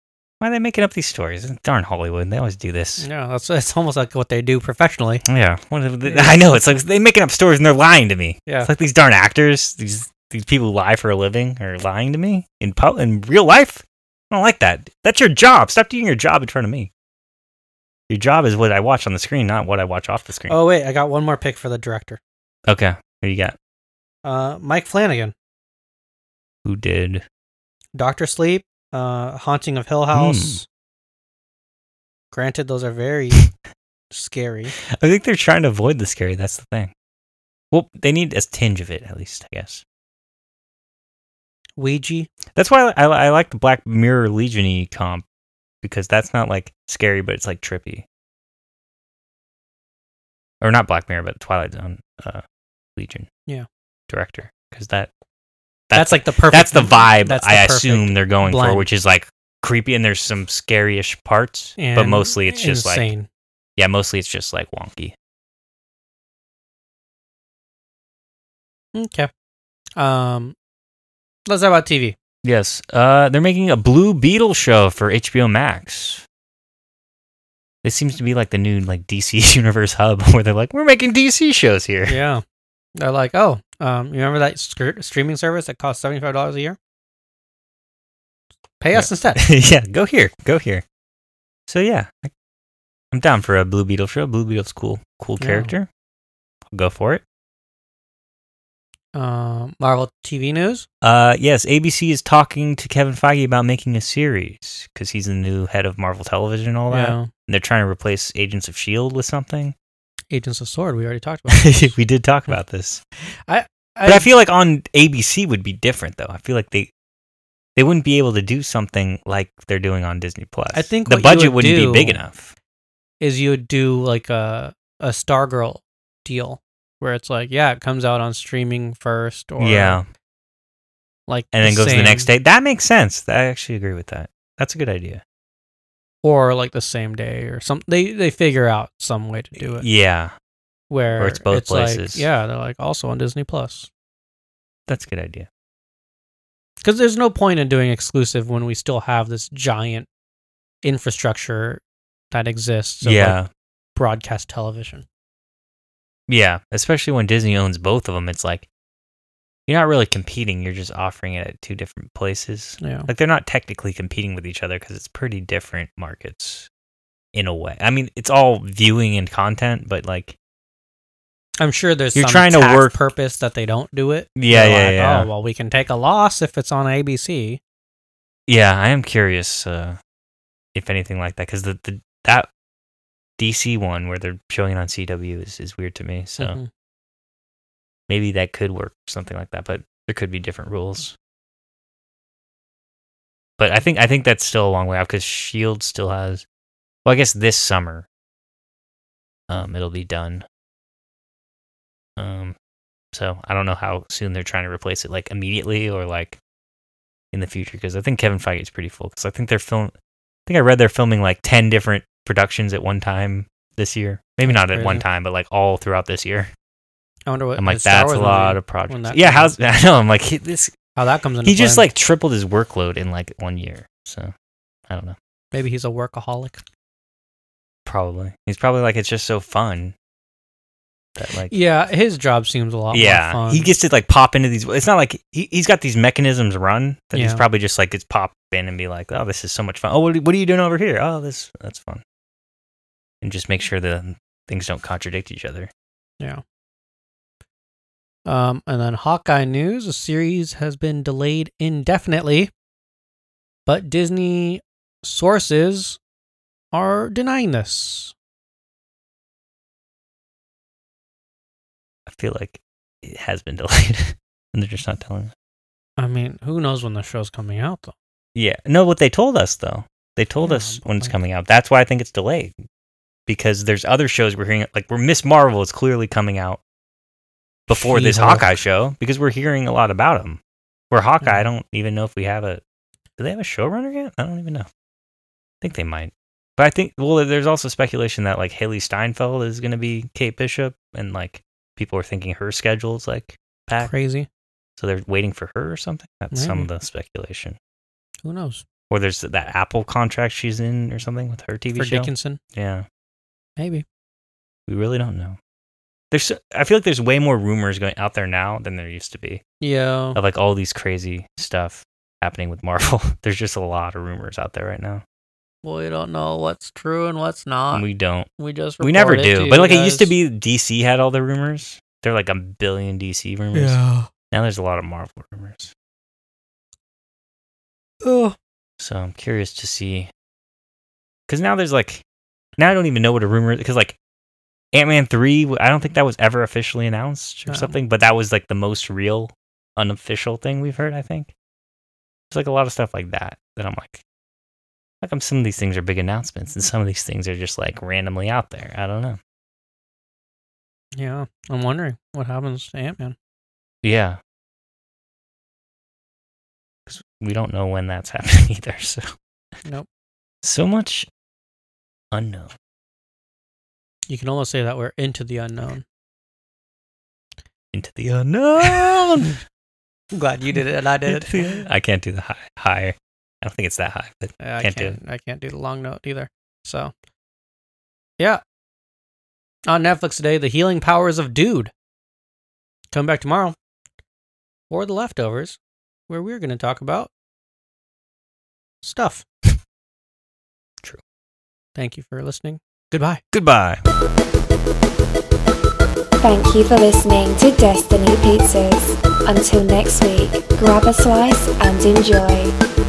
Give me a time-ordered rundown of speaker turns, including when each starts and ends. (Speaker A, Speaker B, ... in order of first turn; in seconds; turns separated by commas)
Speaker A: 0.4-3.0, Speaker B: 3.0-5.2, Speaker A: 5.3-16.9, Speaker B: 6.0-6.7, Speaker A: 18.1-20.6, Speaker B: 20.5-22.2, Speaker A: 22.7-23.6, Speaker B: 24.2-25.3, Speaker A: 26.6-27.2, Speaker B: 27.9-30.7, Speaker A: 30.1-30.6, Speaker B: 32.3-33.5, Speaker B: 34.1-34.8, Speaker A: 34.9-36.9, Speaker A: 37.7-39.8, Speaker B: 41.8-42.3, Speaker A: 42.5-45.2, Speaker A: 45.8-48.0, Speaker A: 50.6-52.4, Speaker A: 53.0-53.3, Speaker A: 54.1-55.1, Speaker A: 55.9-63.1, Speaker B: 55.9-58.9, Speaker B: 61.8-63.3, Speaker A: 63.8-65.2, Speaker B: 69.0-69.3, Speaker B: 70.0-70.5, Speaker B: 71.5-72.2, Speaker A: 72.4-76.2, Speaker A: 77.8-82.2, Speaker B: 82.1-82.4, Speaker B: 83.0-86.8, Speaker B: 88.8-89.5, Speaker A: 89.0-90.8, Speaker A: 91.7-92.3, Speaker A: 93.1-95.9, Speaker B: 95.4-95.7, Speaker A: 96.7-97.2, Speaker B: 99.1-100.9, Speaker A: 101.0-109.7, Speaker B: 106.9-107.3, Speaker B: 110.3-112.0, Speaker A: 111.5-113.0, Speaker B: 113.5-114.3, Speaker A: 114.0-116.9, Speaker A: 117.8-122.5, Speaker B: 120.7-122.2, Speaker B: 123.2-130.0, Speaker A: 129.6-130.0, Speaker B: 131.3-132.3, Speaker A: 131.5-135.2, Speaker B: 136.2-139.9, Speaker A: 139.6-140.3, Speaker B: 140.9-143.9, Speaker A: 141.1-142.2, Speaker A: 144.9-145.5, Speaker B: 146.8-150.1, Speaker B: 150.8-153.4, Speaker A: 153.0-153.5, Speaker B: 153.9-155.1, Speaker A: 156.3-158.7, Speaker A: 159.7-166.7, Speaker B: 162.8-163.1, Speaker A: 167.3-170.4, Speaker B: 171.6-177.6, Speaker A: 172.2-173.0, Speaker A: 174.4-175.3, Speaker A: 178.5-180.0, Speaker A: 180.8-182.5, Speaker A: 183.4-186.6, Speaker B: 186.4-186.7, Speaker A: 188.1-191.2, Speaker A: 193.6-196.4, Speaker A: 197.1-198.1, Speaker A: 199.5-200.4, Speaker A: 202.2-202.6, Speaker A: 203.1-206.4, Speaker A: 207.3-209.9, Speaker A: 210.5-216.5, Speaker B: 214.5-215.0, Speaker B: 217.3-219.5, Speaker A: 217.6-220.8, Speaker B: 221.0-221.9, Speaker A: 221.4-224.3, Speaker A: 224.9-225.2, Speaker B: 225.5-226.6, Speaker A: 227.9-229.9, Speaker A: 231.2-231.6, Speaker B: 231.5-233.7, Speaker A: 232.9-242.0, Speaker B: 237.1-237.4, Speaker A: 243.2-245.7, Speaker B: 248.3-252.5, Speaker B: 253.7-256.0, Speaker B: 256.7-258.1, Speaker A: 262.1-265.3, Speaker B: 266.0-267.9, Speaker A: 268.4-272.6, Speaker B: 270.4-271.1, Speaker A: 273.3-276.6, Speaker A: 277.7-282.6, Speaker B: 277.7-278.6, Speaker B: 281.2-281.5, Speaker A: 283.2-284.7, Speaker A: 285.6-293.9, Speaker B: 293.8-294.3, Speaker A: 294.8-297.6, Speaker B: 296.3-296.7, Speaker B: 298.2-298.6, Speaker A: 298.9-302.9, Speaker B: 301.7-302.4, Speaker B: 303.6-303.9, Speaker A: 304.7-305.4, Speaker A: 306.1-309.4, Speaker B: 309.6-310.2, Speaker A: 310.1-315.0, Speaker B: 315.6-317.9, Speaker A: 317.7-318.3, Speaker B: 318.4-320.1, Speaker A: 318.8-323.8, Speaker B: 323.5-324.1, Speaker A: 324.3-325.7, Speaker B: 328.0-328.4, Speaker A: 328.8-330.1, Speaker A: 331.3-332.0, Speaker A: 332.6-334.0, Speaker A: 334.7-341.3, Speaker B: 337.5-337.8, Speaker A: 342.3-344.0, Speaker A: 345.0-349.2, Speaker B: 351.0-353.1, Speaker A: 353.8-354.2, Speaker A: 356.9-359.1, Speaker A: 360.4-361.1, Speaker A: 362.1-362.5, Speaker B: 364.1-365.8, Speaker A: 367.7-369.4, Speaker B: 368.8-369.3, Speaker B: 370.1-371.6, Speaker A: 371.1-375.0, Speaker B: 374.4-376.9, Speaker B: 379.7-381.7, Speaker B: 382.9-383.6, Speaker B: 384.7-387.1, Speaker B: 388.8-389.2, Speaker B: 391.8-393.2, Speaker A: 393.3-393.8, Speaker C: 396.2-402.6